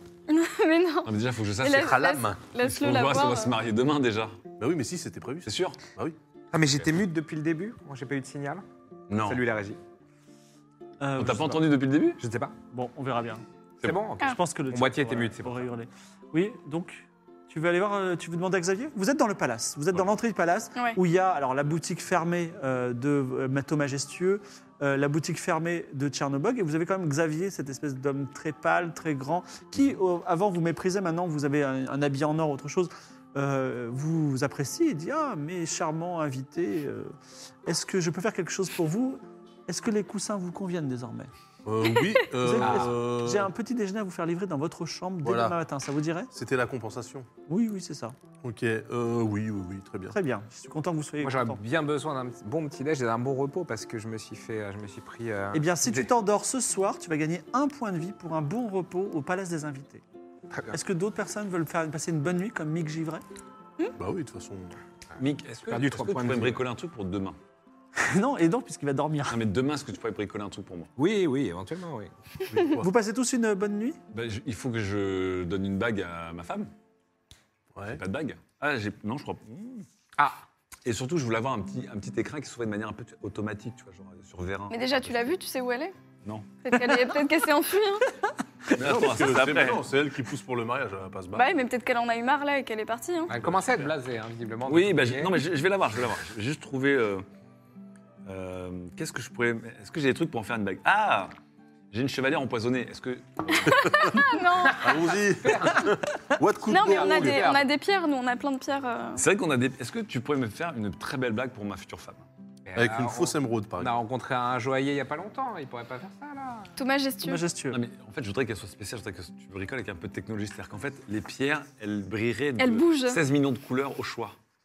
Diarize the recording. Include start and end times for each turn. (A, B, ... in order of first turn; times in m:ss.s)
0:00.3-0:03.6 A
0:01.0-0:04.4 B
0:01.8-0:02.4 C
0:04.6-0:06.2 C
0:05.4-0:05.8 B
0:06.5-0:08.6 D
0:09.1-0:09.4 B
0:09.2-0:09.8 D
0:11.0-0:11.6 E
0:11.2-0:12.2 B
0:12.2-0:12.6 D
0:12.7-0:13.4 E
0:13.8-0:15.7 D
0:14.2-0:37.1 E
0:37.6-0:41.3 E
0:41.6-0:43.5 C
0:42.4-0:46.3 E
0:42.6-0:42.9 D
0:45.2-0:45.6 C
0:46.3-0:47.3 C
0:47.5-0:48.2 E
0:48.4-0:50.1 C
0:50.1-0:51.6 E
0:51.2-0:56.1 D
0:55.5-1:00.0 E
1:00.5-1:00.8 D
1:00.7-1:03.2 E
1:04.0-1:04.7 C
1:05.2-1:07.4 B
1:05.6-1:06.6 D
1:08.0-1:09.4 E
1:09.3-1:10.9 B
1:11.0-1:12.1 D
1:12.5-1:12.9 C
1:12.7-1:14.0 E
1:14.1-1:16.7 B
1:17.7-1:18.0 C
1:17.9-1:19.8 B
1:20.8-1:25.3 B
1:24.7-1:25.9 A
1:26.2-1:26.5 B
1:26.6-1:28.0 A
1:28.7-1:29.8 B
1:28.8-1:31.5 C
1:31.3-1:33.3 A
1:33.3-1:35.4 D
1:33.3-1:33.9 B
1:34.6-1:37.2 B
1:38.2-1:41.3 B
1:41.9-1:43.9 B
1:43.8-1:44.1 C
1:44.0-1:45.2 A
1:44.8-1:47.5 C
1:44.9-1:45.9 D
1:46.7-1:49.2 A
1:46.7-1:47.6 D
1:49.2-1:52.2 B
1:52.6-1:56.7 D
1:52.7-1:53.9 C
1:56.8-1:57.4 A
1:57.2-1:57.8 E
1:57.7-2:04.4 B
2:02.6-2:03.2 A